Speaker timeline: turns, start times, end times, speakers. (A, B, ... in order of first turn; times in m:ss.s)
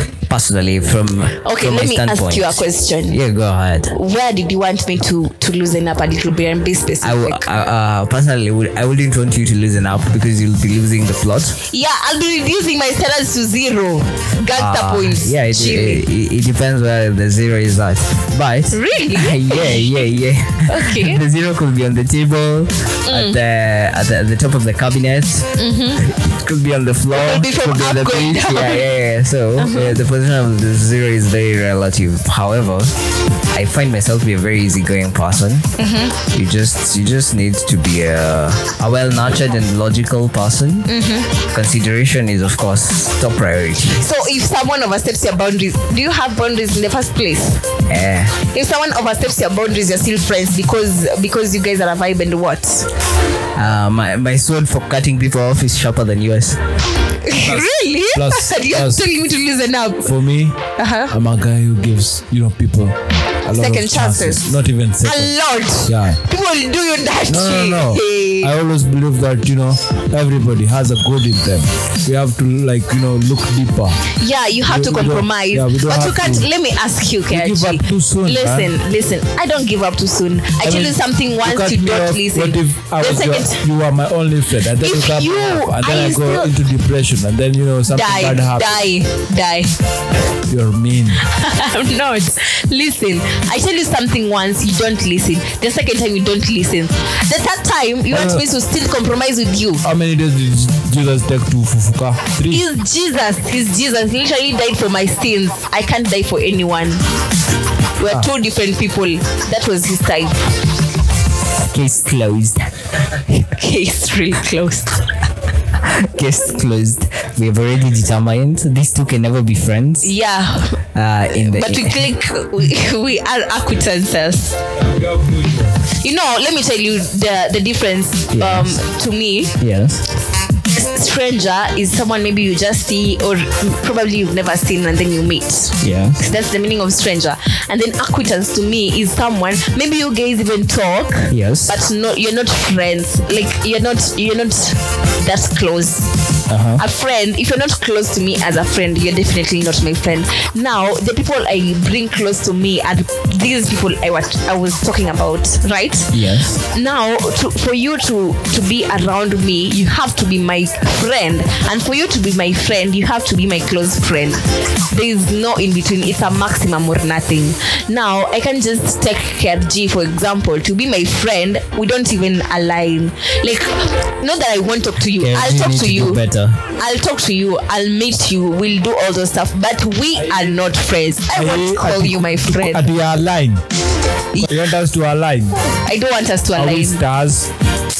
0:00.3-0:03.9 A
0:01.4-0:03.2 B
0:03.9-0:07.5 B
0:07.0-0:11.6 A
0:11.7-0:16.0 B
0:14.5-0:32.9 A
0:18.7-0:19.9 B
0:20.6-0:21.2 B
0:23.1-0:23.4 B
0:25.6-0:26.0 B
0:27.1-0:29.0 B
0:29.6-0:30.0 B
0:33.5-0:44.1 A
0:35.8-0:36.2 B
0:40.9-0:41.3 B
0:44.0-0:47.6 B
0:47.9-0:48.3 A
0:48.4-0:52.9 B
0:53.6-0:56.6 A
0:57.2-1:00.1 B
0:57.4-0:59.1 C
1:00.0-1:06.2 C
1:00.8-1:01.1 B
1:03.6-1:08.5 B
1:07.3-1:14.0 C
1:14.1-1:23.6 B
1:14.6-1:16.5 C
1:17.3-1:18.7 C
1:20.6-1:28.9 C
1:24.8-1:26.5 B
1:27.9-1:29.7 B
1:30.5-1:31.2 C
1:31.2-1:39.8 B
1:38.1-1:38.4 C
1:39.8-1:42.6 C
1:42.5-1:47.0 B
1:48.0-1:50.5 B
1:51.6-1:53.4 A
1:53.4-1:55.1 B
1:55.8-2:00.1 A
2:00.0-2:04.6 B
2:00.9-2:02.1 A
2:04.9-2:05.8 C
2:05.9-2:09.6 B
2:08.3-2:08.8 A
2:09.6-2:10.0 A
2:10.7-2:26.2 B
2:15.8-2:16.2 A
2:21.3-2:21.8 A
2:26.5-2:26.8 A
2:26.8-3:02.9 B
2:36.1-2:36.6 A
2:55.2-2:56.6 A
3:00.3-3:00.6 C
3:01.3-3:03.6 C
3:04.4-3:05.6 C
3:05.8-3:07.0 B
3:06.6-3:07.5 C